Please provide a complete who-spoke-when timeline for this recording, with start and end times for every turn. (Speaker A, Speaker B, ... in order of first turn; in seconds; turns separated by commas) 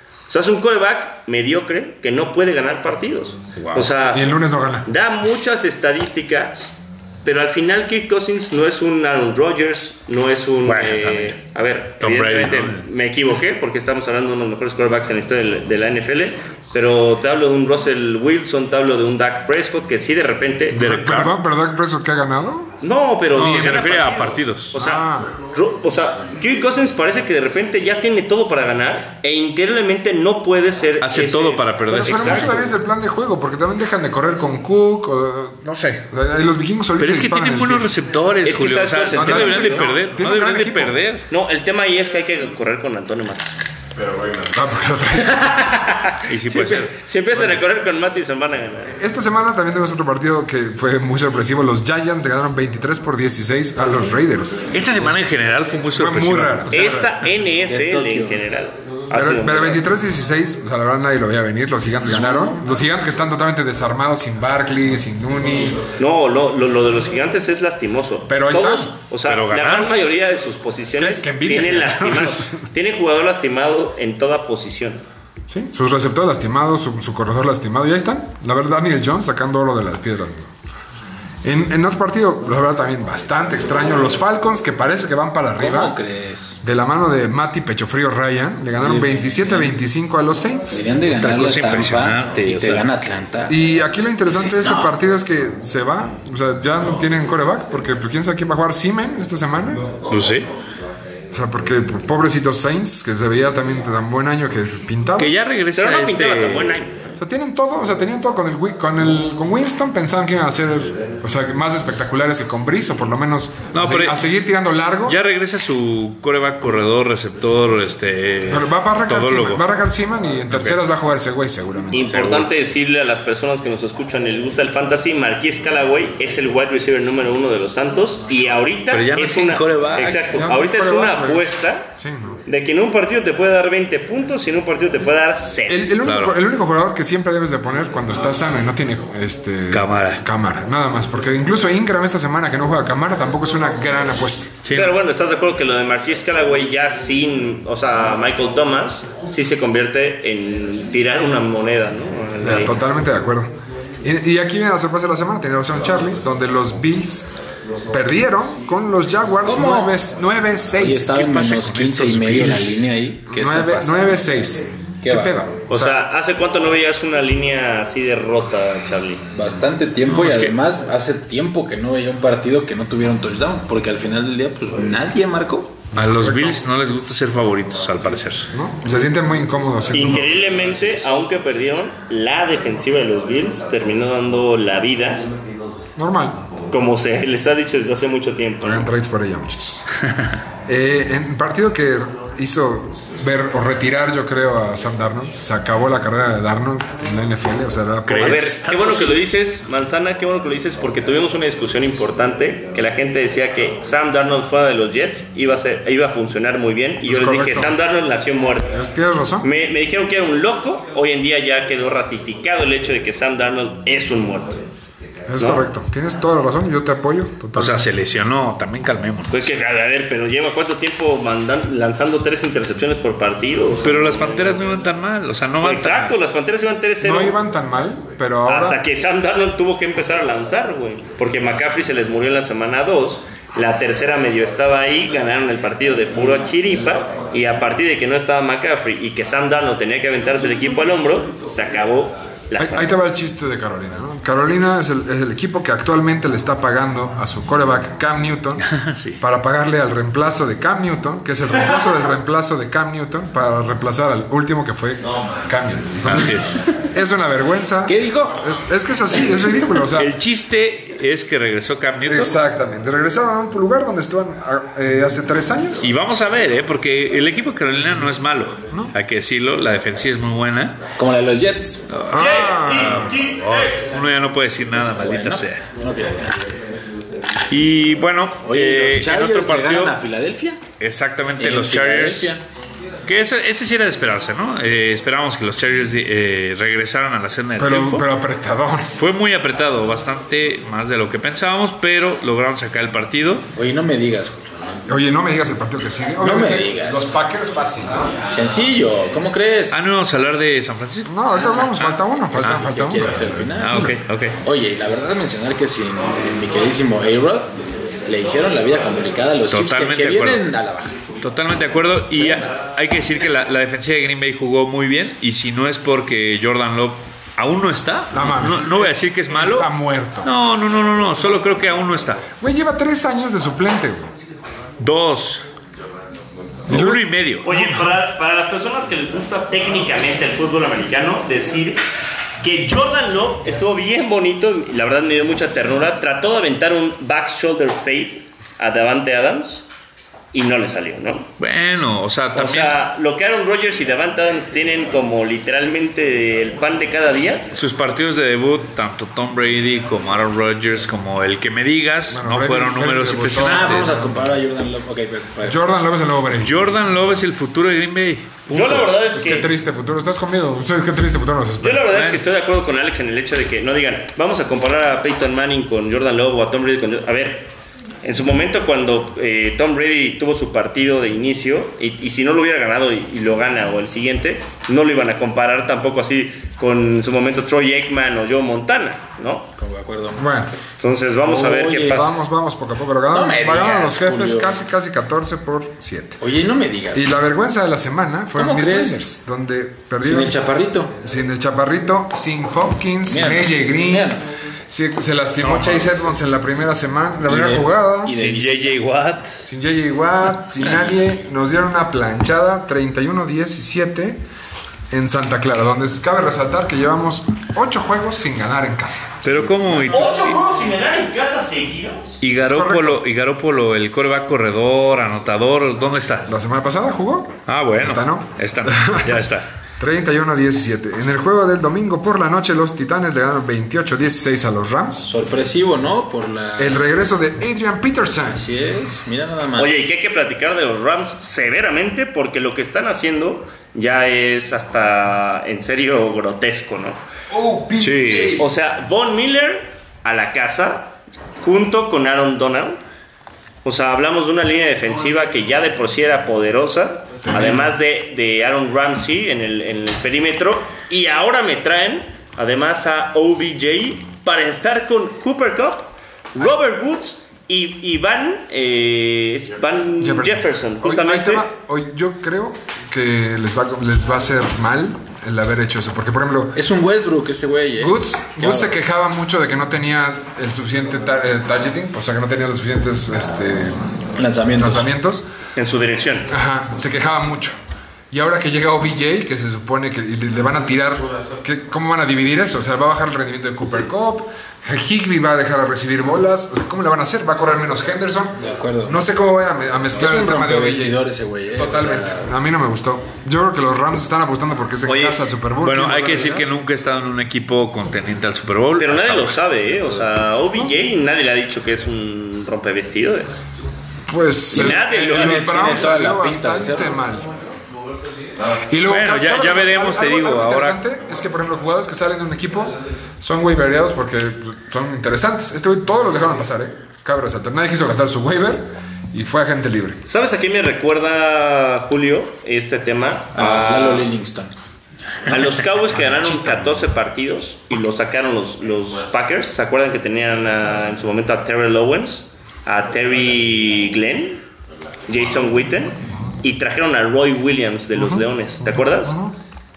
Speaker A: 0.3-21.1, Speaker B: 3.5-3.9, Speaker C: 4.1-4.9, Speaker B: 10.6-11.4, Speaker B: 12.0-12.8, Speaker B: 20.7-21.3, Speaker C: 20.8-22.7, Speaker A: 22.8-32.5, Speaker B: 23.3-24.7, Speaker C: 24.8-25.3, Speaker B: 31.0-32.6, Speaker C: 31.9-37.9, Speaker B: 37.0-41.2, Speaker A: 38.4-39.9, Speaker C: 39.1-41.0, Speaker A: 41.3-43.5, Speaker C: 44.4-45.5, Speaker A: 45.2-49.0, Speaker B: 46.3-46.9, Speaker C: 47.3-47.6, Speaker C: 48.9-54.7, Speaker B: 54.7-57.2, Speaker C: 55.9-57.1, Speaker A: 56.7-59.9, Speaker D: 57.6-58.4, Speaker C: 59.1-65.8, Speaker D: 61.9-62.6, Speaker A: 66.0-75.0, Speaker C: 68.3-68.9, Speaker B: 69.2-69.9, Speaker C: 71.0-72.6, Speaker C: 75.5-80.5, Speaker C: 81.4-86.0, Speaker D: 85.6-86.6, Speaker C: 86.6-90.8, Speaker D: 88.8-89.7, Speaker D: 90.7-93.6, Speaker B: 91.1-92.8, Speaker C: 93.5-99.9, Speaker D: 94.3-94.9, Speaker B: 100.1-100.5, Speaker C: 101.3-105.3, Speaker B: 105.2-106.8, Speaker A: 105.7-107.0, Speaker C: 107.2-115.2, Speaker B: 113.7-114.2, Speaker B: 115.0-119.7, Speaker C: 118.5-122.1, Speaker B: 120.5-120.8, Speaker A: 121.9-131.9, Speaker B: 122.1-122.5, Speaker B: 128.9-130.3, Speaker C: 130.3-132.4, Speaker A: 132.4-135.8, Speaker C: 135.7-144.5, Speaker B: 136.0-136.3, Speaker B: 139.7-140.2, Speaker B: 144.6-144.9, Speaker A: 144.7-152.8, Speaker C: 152.4-157.3, Speaker C: 157.9-166.0, Speaker D: 159.4-159.9, Speaker D: 160.8-164.1, Speaker B: 162.3-162.5, Speaker D: 165.0-165.4, Speaker A: 165.7-169.2, Speaker D: 169.3-175.8, Speaker B: 170.1-170.6, Speaker C: 175.9-176.6, Speaker B: 175.9-178.5, Speaker C: 178.5-180.6, Speaker A: 179.9-185.2, Speaker C: 185.9-186.4, Speaker A: 186.7-188.9, Speaker C: 188.6-189.9, Speaker C: 190.7-198.5, Speaker B: 198.1-199.2, Speaker A: 198.2-208.7, Speaker C: 207.0-207.8, Speaker C: 208.7-209.5, Speaker A: 209.4-214.6, Speaker C: 215.3-217.8, Speaker A: 215.4-215.6, Speaker B: 217.5-219.5, Speaker A: 219.3-223.9, Speaker B: 223.8-226.2, Speaker A: 225.6-227.3, Speaker C: 227.0-228.8, Speaker A: 228.4-242.9, Speaker C: 242.6-248.7, Speaker B: 248.6-249.2, Speaker C: 249.2-260.1, Speaker B: 256.0-256.7, Speaker D: 257.9-258.4, Speaker B: 259.9-262.4, Speaker C: 262.1-265.9, Speaker B: 265.8-270.8, Speaker D: 271.0-271.8, Speaker B: 271.9-275.6, Speaker C: 272.1-273.2, Speaker A: 272.1-273.8, Speaker D: 275.0-276.4, Speaker B: 277.5-280.0, Speaker D: 278.4-280.6, Speaker B: 280.8-282.4, Speaker D: 281.4-282.4, Speaker B: 283.1-288.1, Speaker C: 287.6-288.9, Speaker B: 288.9-293.5, Speaker D: 293.6-294.8, Speaker C: 294.9-298.1, Speaker D: 296.2-297.1, Speaker D: 298.3-299.8, Speaker B: 299.7-302.6, Speaker C: 301.1-303.9, Speaker D: 301.4-301.7, Speaker D: 302.3-307.5, Speaker B: 303.6-304.4, Speaker D: 308.1-311.0, Speaker B: 309.5-310.4, Speaker B: 311.2-319.7, Speaker D: 312.1-312.5, Speaker C: 318.1-320.3, Speaker B: 320.2-322.2, Speaker C: 322.4-324.1, Speaker B: 324.8-325.4, Speaker B: 326.7-327.8, Speaker C: 326.7-327.1, Speaker A: 327.4-331.8, Speaker A: 332.4-339.6, Speaker A: 340.3-341.3, Speaker B: 341.4-342.8, Speaker A: 342.3-347.5, Speaker B: 347.5-354.0, Speaker C: 352.1-354.1, Speaker D: 353.3-355.6, Speaker C: 355.4-356.6, Speaker B: 356.4-358.9, Speaker A: 358.5-359.5, Speaker C: 359.1-361.9, Speaker A: 361.6-367.5, Speaker B: 361.9-362.2, Speaker A: 368.0-379.5, Speaker D: 379.6-380.3, Speaker C: 380.2-380.5, Speaker A: 380.8-382.1, Speaker D: 381.2-382.1, Speaker C: 381.9-386.2, Speaker D: 383.1-384.5, Speaker D: 386.2-387.1, Speaker C: 386.9-390.4, Speaker D: 388.4-389.0, Speaker D: 390.0-390.9, Speaker C: 391.0-394.2, Speaker D: 393.1-394.3, Speaker C: 394.7-398.2, Speaker D: 395.4-396.0, Speaker D: 397.2-398.8, Speaker B: 398.1-399.3, Speaker C: 399.4-404.2, Speaker C: 404.9-409.9, Speaker B: 409.2-410.4, Speaker A: 409.9-412.2, Speaker B: 412.2-416.3, Speaker C: 412.4-413.0, Speaker C: 416.3-419.2, Speaker B: 417.5-419.5, Speaker C: 419.8-425.1, Speaker D: 425.0-426.8, Speaker C: 426.6-428.4, Speaker D: 428.3-429.9, Speaker A: 429.5-437.0, Speaker C: 437.3-438.4, Speaker B: 437.8-438.4, Speaker A: 438.4-442.8, Speaker A: 443.6-461.5, Speaker C: 447.2-447.7, Speaker C: 460.0-466.6, Speaker D: 466.6-468.7, Speaker C: 467.8-473.8, Speaker D: 474.2-474.9, Speaker C: 474.5-475.2, Speaker A: 475.6-476.3, Speaker C: 476.3-477.6, Speaker C: 478.1-496.5, Speaker D: 488.4-489.0, Speaker D: 490.0-492.3, Speaker A: 494.9-495.2, Speaker B: 495.6-499.4, Speaker A: 498.8-503.3, Speaker C: 504.1-507.3, Speaker A: 504.5-505.8, Speaker D: 504.5-506.9, Speaker C: 508.5-520.0, Speaker B: 508.8-510.8, Speaker A: 520.0-524.1, Speaker D: 523.3-524.5, Speaker A: 525.3-534.4, Speaker A: 535.1-539.2, Speaker C: 537.9-538.2, Speaker C: 538.7-539.3